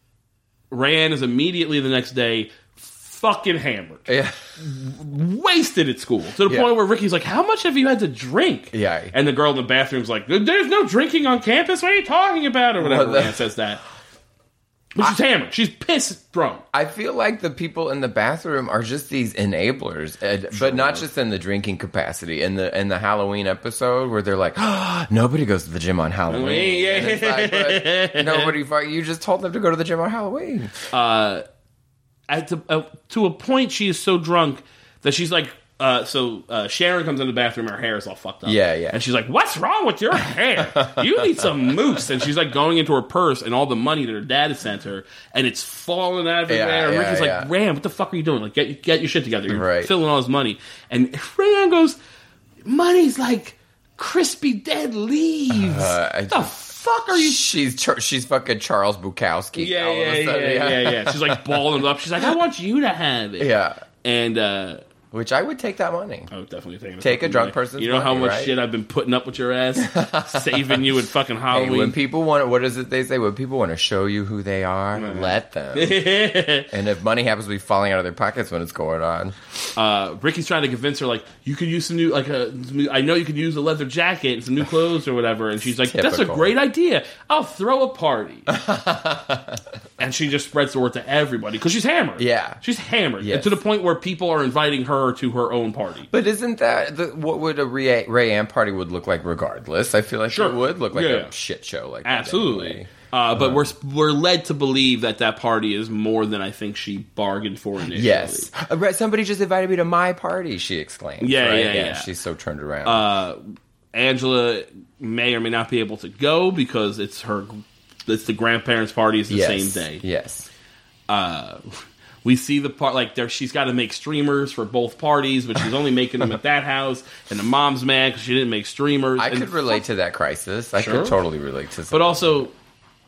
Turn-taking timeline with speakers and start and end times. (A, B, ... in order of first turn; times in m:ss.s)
0:00.7-0:13.8 A
0:04.1-0:04.4 B
0:08.7-0:09.1 B
0:12.8-0:13.4 B
0:15.0-0:16.6 A
0:16.7-0:30.8 B
0:20.5-0:21.0 A
0:26.3-0:28.5 A
0:30.9-0:31.4 A
0:32.3-0:52.0 A
0:38.4-0:39.0 B
0:40.8-0:41.5 B
0:46.5-0:47.5 B
0:49.5-0:49.9 B
0:52.6-0:57.5 A
0:55.5-0:56.6 B
0:57.1-1:01.6 B
0:59.6-1:04.8 A
1:03.4-1:03.8 B
1:05.1-1:06.3 B
1:06.3-1:12.0 A
1:07.0-1:08.6 B
1:09.8-1:10.9 B
1:11.5-1:16.0 B
1:15.0-1:16.7 A
1:16.7-1:19.4 B
1:19.8-1:28.5 A
1:25.8-1:26.5 B
1:28.5-1:29.6 B
1:30.0-1:36.1 A
1:32.2-1:32.6 B
1:33.2-1:33.6 B
1:36.1-1:43.7 B
1:40.3-1:41.3 A
1:42.0-1:48.5 A
1:47.9-1:53.0 B
1:51.2-1:52.1 A
1:52.8-2:00.0 A
1:59.3-2:00.5 B
2:01.1-2:09.8 A
2:09.2-2:12.4 B
2:10.8-2:11.2 A
2:11.9-2:12.5 A